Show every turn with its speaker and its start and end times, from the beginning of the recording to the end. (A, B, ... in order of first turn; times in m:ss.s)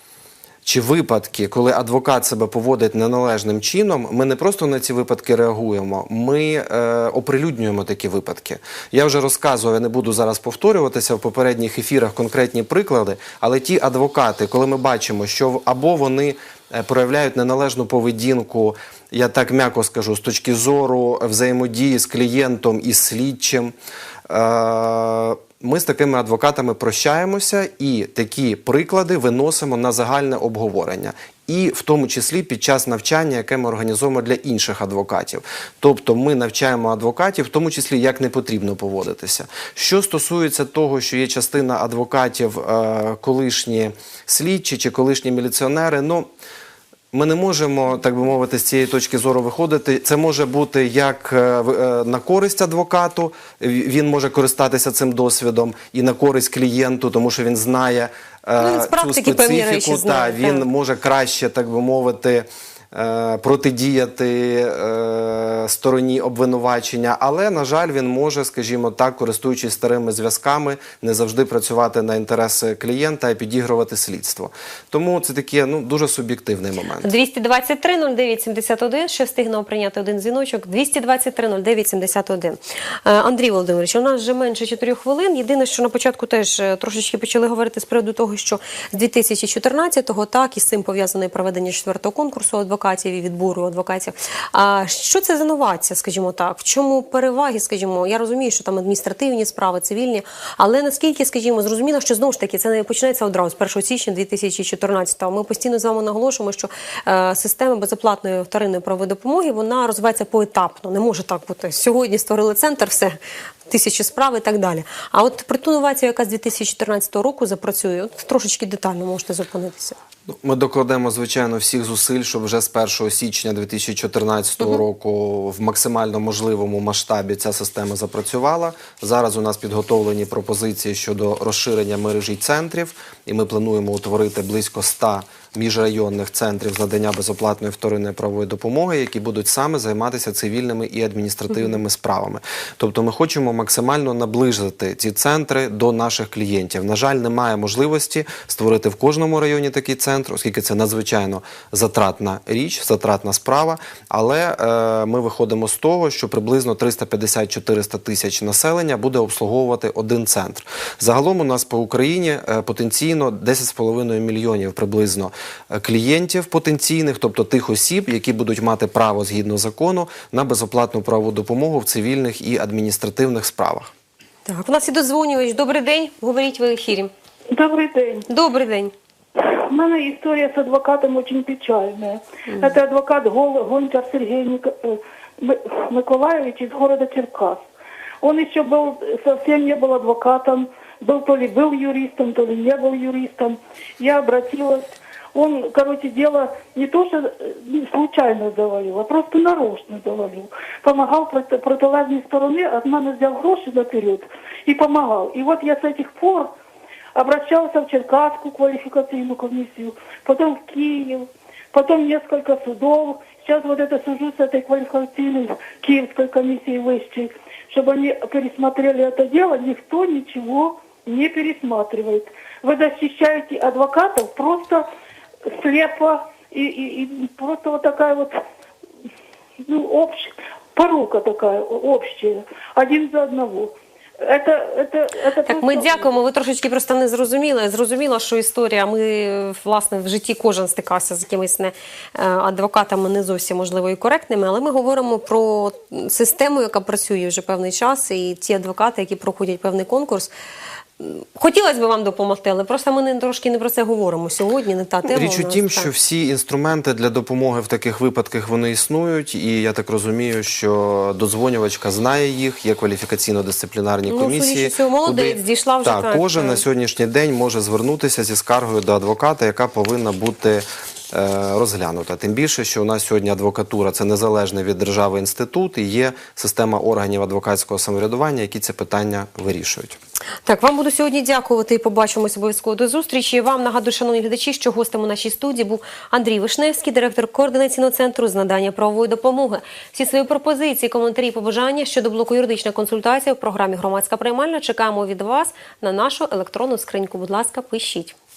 0:00.6-0:23.7 A
0:24.3-0:46.3 A
0:47.1-1:17.1 A
0:58.6-1:00.6 B
1:17.0-1:53.2 B
1:53.7-2:00.0 B
2:00.3-2:53.9 A
2:54.4-2:57.1 B
2:57.5-2:58.2 C
2:58.3-2:58.9 B
2:59.3-3:07.6 C
3:02.5-3:02.7 B
3:08.2-3:26.5 C
3:27.1-3:44.9 C
3:45.5-3:48.4 C
3:49.6-3:56.1 C
3:55.4-4:10.3 B
4:11.0-4:15.9 B
4:15.0-4:40.0 A
4:24.0-4:26.6 B
4:40.4-4:58.2 B